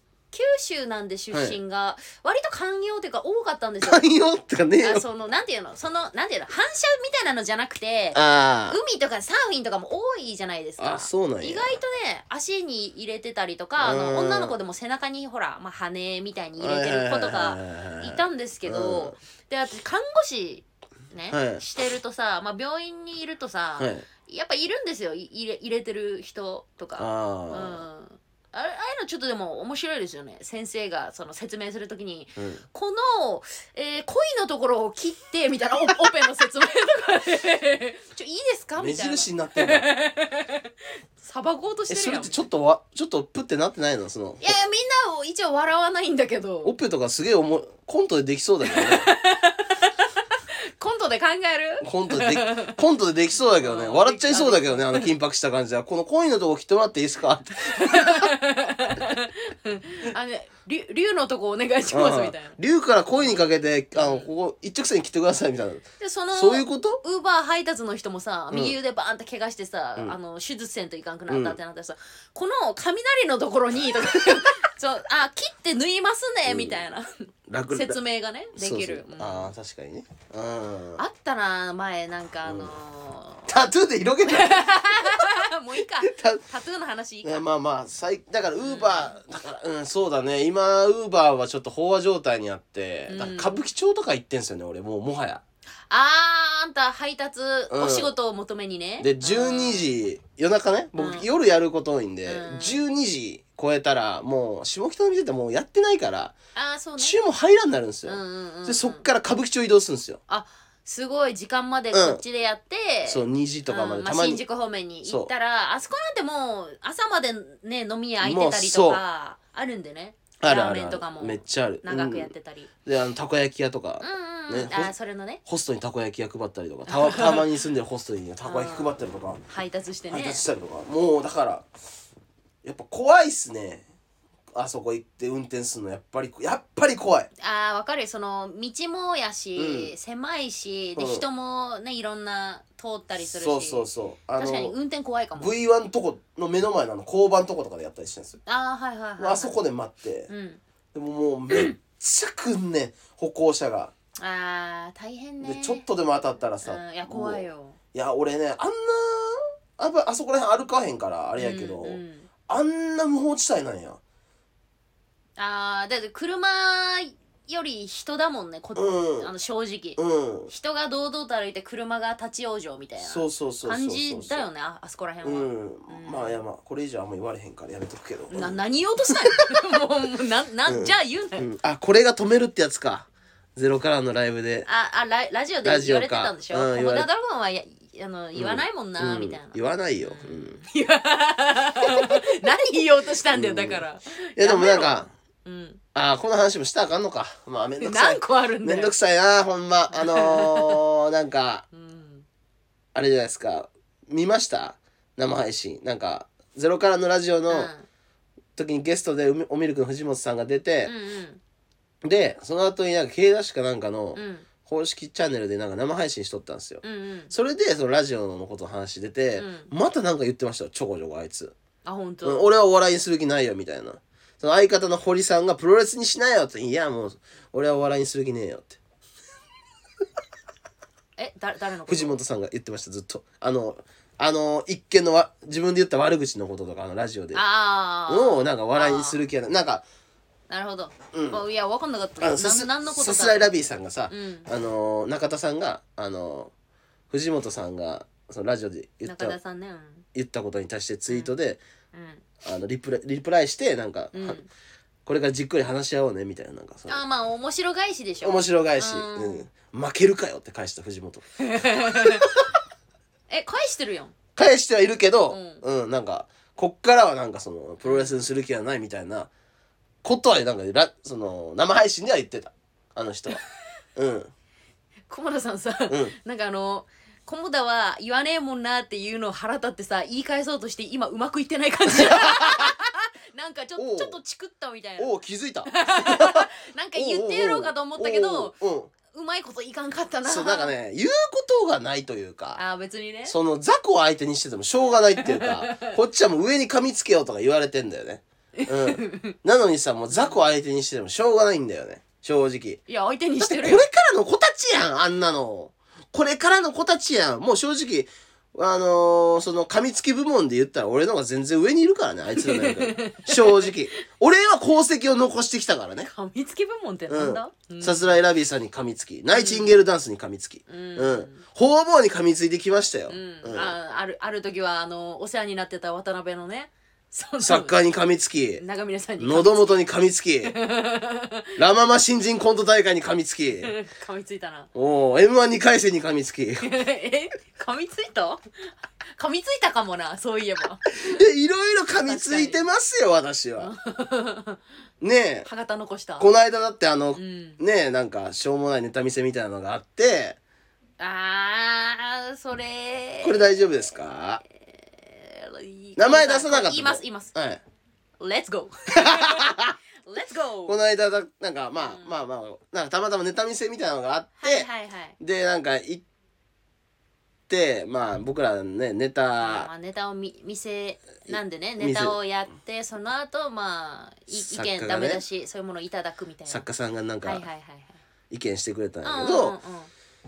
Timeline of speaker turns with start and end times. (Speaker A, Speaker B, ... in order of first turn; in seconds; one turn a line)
Speaker A: 0.3-4.0
Speaker B: 1.3-1.6
Speaker B: 3.8-5.0
Speaker A: 4.8-40.7
Speaker B: 8.1-8.8
Speaker B: 10.8-11.8
Speaker B: 13.8-14.5
Speaker B: 16.6-19.1
Speaker B: 21.3-21.6
Speaker B: 23.8-24.0
Speaker B: 27.0-27.8
Speaker B: 32.4-32.6
Speaker B: 38.8-39.9
Speaker A: 41.2-42.4
Speaker B: 41.9-44.5
Speaker A: 44.4-46.7
Speaker B: 46.6-49.1
Speaker A: 48.7-52.8
Speaker B: 51.8-58.3
Speaker A: 53.6-55.1
Speaker A: 57.8-62.6
Speaker B: 61.9-67.0
Speaker A: 63.1-64.3
Speaker A: 66.0-77.1
Speaker B: 71.3-71.6
Speaker B: 76.5-76.8
Speaker B: 77.5-78.0
Speaker A: 77.7-79.5
Speaker B: 78.5-81.0
Speaker A: 81.0-83.6
Speaker B: 82.4-82.7
Speaker B: 83.5-85.4
Speaker A: 84.2-87.4
Speaker B: 86.0-86.4
Speaker B: 87.2-95.4
Speaker A: 88.6-89.2
Speaker A: 93.1-93.6
Speaker A: 95.9-99.9
Speaker B: 97.7-98.1
Speaker B: 99.0-106.3
Speaker A: 101.0-101.3
Speaker A: 102.2-102.8
Speaker A: 106.5-107.1
Speaker B: 107.0-110.2
Speaker A: 108.0-109.0
Speaker A: 110.3-122.7
Speaker B: 111.9-112.2
Speaker B: 113.0-114.4
Speaker B: 115.0-115.3
Speaker B: 118.2-119.0
Speaker B: 120.4-122.3
Speaker B: 122.8-124.9
Speaker A: 124.0-125.4
Speaker B: 125.4-129.4
Speaker A: 126.9-127.5
Speaker A: 128.4-130.4
Speaker B: 130.1-131.7
Speaker B: 132.6-133.8
Speaker B: 134.5-137.3
Speaker A: 137.4-145.5
Speaker B: 139.6-139.9
Speaker B: 140.9-141.2
Speaker B: 143.3-144.7
Speaker B: 145.4-148.4
Speaker A: 148.4-149.6
Speaker B: 149.2-150.3
Speaker A: 150.3-150.6
Speaker B: 150.9-153.9
Speaker A: 151.5-151.8
Speaker A: 154.2-155.8
Speaker B: 155.4-157.4
Speaker A: 156.6-157.8
Speaker B: 157.9-164.0
Speaker A: 161.4-162.3
Speaker A: 165.4-176.4
Speaker B: 168.8-169.3
Speaker B: 170.0-170.5
Speaker B: 173.0-174.5
Speaker B: 175.2-178.6
Speaker A: 178.3-181.5
Speaker B: 180.7-184.7
Speaker A: 184.6-195.8
Speaker B: 185.6-187.1
Speaker B: 188.3-190.6
Speaker B: 191.8-192.4
Speaker B: 193.2-193.8
Speaker B: 194.4-195.1
Speaker B: 195.9-201.7
Speaker A: 197.8-198.9
Speaker A: 199.9-200.8
Speaker A: 201.7-202.2
Speaker B: 202.9-207.7
Speaker A: 207.5-207.8
Speaker B: 208.6-210.9
Speaker A: 210.8-211.4
Speaker B: 212.0-221.5
Speaker A: 214.1-214.5
Speaker A: 216.8-217.3
Speaker A: 219.4-219.7
Speaker A: 221.8-222.5
Speaker B: 222.2-228.8
Speaker A: 231.2-232.2
Speaker B: 231.9-237.4
Speaker A: 237.3-239.2
Speaker B: 238.1-239.8
Speaker A: 240.5-243.5
Speaker B: 241.1-241.4
Speaker B: 242.2-246.5
Speaker A: 244.1-244.5
Speaker B: 247.1-249.3
Speaker A: 249.0-250.0
Speaker B: 250.1-251.6
Speaker A: 251.1-251.3
Speaker A: 251.9-252.2
Speaker B: 252.4-254.4
Speaker A: 254.1-254.5
Speaker B: 255.1-257.0
Speaker A: 256.9-259.5
Speaker B: 258.2-262.4
Speaker A: 261.4-262.4
Speaker A: 263.3-264.1
Speaker B: 264.4-269.3
Speaker A: 265.3-265.6
Speaker A: 267.8-268.2
Speaker B: 270.0-273.4
Speaker B: 273.9-274.3
Speaker A: 275.1-285.1
Speaker B: 275.9-276.1
Speaker B: 281.9-282.7
Speaker B: 283.8-284.2
Speaker B: 285.0-288.9
Speaker A: 285.6-288.6
Speaker A: 289.1-290.7
Speaker B: 290.2-292.6
Speaker A: 292.6-293.4
Speaker B: 293.2-302.8
Speaker A: 295.2-295.9
Speaker A: 298.6-299.3
Speaker A: 300.1-300.4
Speaker A: 302.9-303.9
Speaker B: 303.4-316.1
Speaker A: 312.4-314.0
Speaker A: 316.0-318.2
Speaker B: 317.1-323.7
Speaker A: 319.3-319.8
Speaker A: 320.7-321.4
Speaker A: 323.1-327.8
Speaker B: 327.4-328.6
Speaker A: 328.6-329.8
Speaker B: 329.2-330.5
Speaker A: 330.4-331.5
Speaker B: 331.6-333.7
Speaker A: 333.6-334.7
Speaker B: 334.7-336.7
Speaker A: 336.6-340.9
Speaker B: 340.9-343.7
Speaker A: 342.0-342.6
Speaker A: 343.6-344.6
Speaker B: 345.0-345.5
Speaker A: 345.4-346.3
Speaker B: 346.2-350.4
Speaker A: 347.1-347.6
Speaker A: 351.0-353.7
Speaker B: 353.2-354.4
Speaker A: 354.6-357.3
Speaker B: 356.0-357.6
Speaker A: 358.2-359.5
Speaker B: 358.9-359.7
Speaker A: 360.0-360.8
Speaker B: 360.7-364.7
Speaker A: 361.8-362.2
Speaker A: 364.4-365.2
Speaker B: 365.2-366.0
Speaker B: 367.5-369.7
Speaker A: 369.4-376.6
Speaker B: 371.3-372.2
Speaker B: 374.3-375.2
Speaker B: 376.5-377.4
Speaker A: 377.2-378.0
Speaker B: 378.3-379.5
Speaker A: 379.0-379.9